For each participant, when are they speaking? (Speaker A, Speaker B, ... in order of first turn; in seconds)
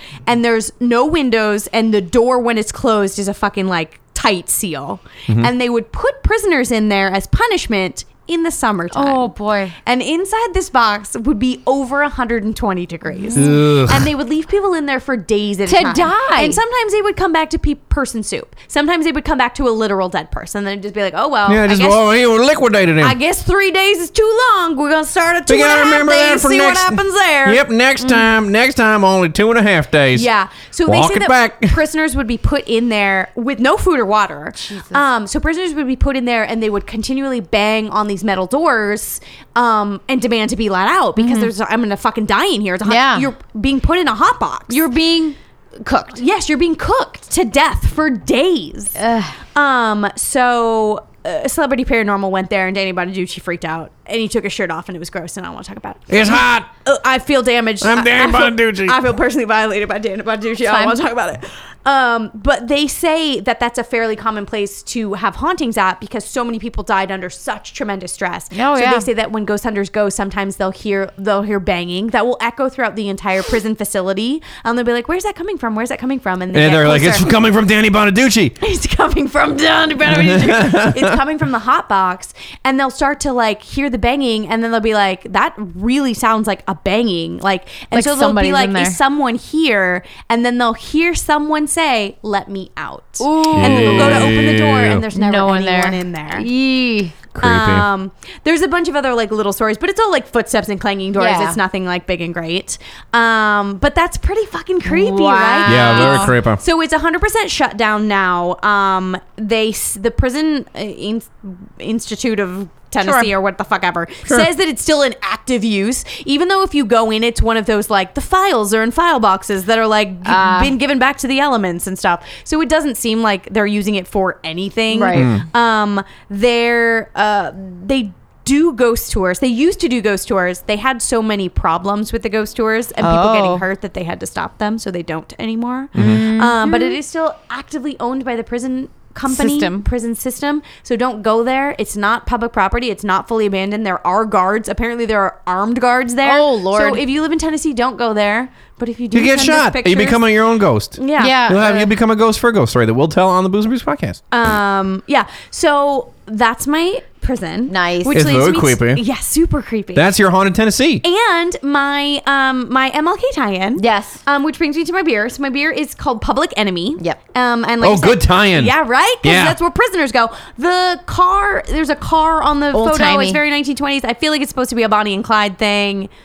Speaker A: 0.3-9.3, 9.8-22.1, 23.0-27.6, 30.1-44.8, 46.1-49.0, 49.5-77.3, 78.6-96.5, 97.4-150.3, 151.0-151.4, 154.3-160.1, 161.0-176.1
Speaker B: 8.9-9.8, 15.7-16.6, 28.0-28.3, 34.6-35.0, 41.2-41.5, 42.9-43.3, 44.7-46.2, 49.0-49.4, 60.6-61.0, 68.5-69.1, 87.9-89.0, 93.2-94.4, 95.1-97.2, 101.2-101.6, 104.8-106.4, 113.0-113.3, 120.2-120.7, 124.9-125.3, 133.0-133.6, 136.0-137.0, 139.3-139.9, 146.2-147.0, 151.2-151.9, 157.7-158.2, 163.8-164.2, 172.7-173.4
Speaker C: 13.3-14.1, 21.5-23.2, 25.5-30.3, 30.9-31.8, 56.1-56.7, 57.8-59.0, 76.5-78.5, 80.1-81.2, 93.5-95.0, 97.3-97.9, 105.7-106.6, 125.1-125.5, 135.9-136.2, 149.1-154.2, 158.1-159.0, 159.9-161.0, 167.8-169.6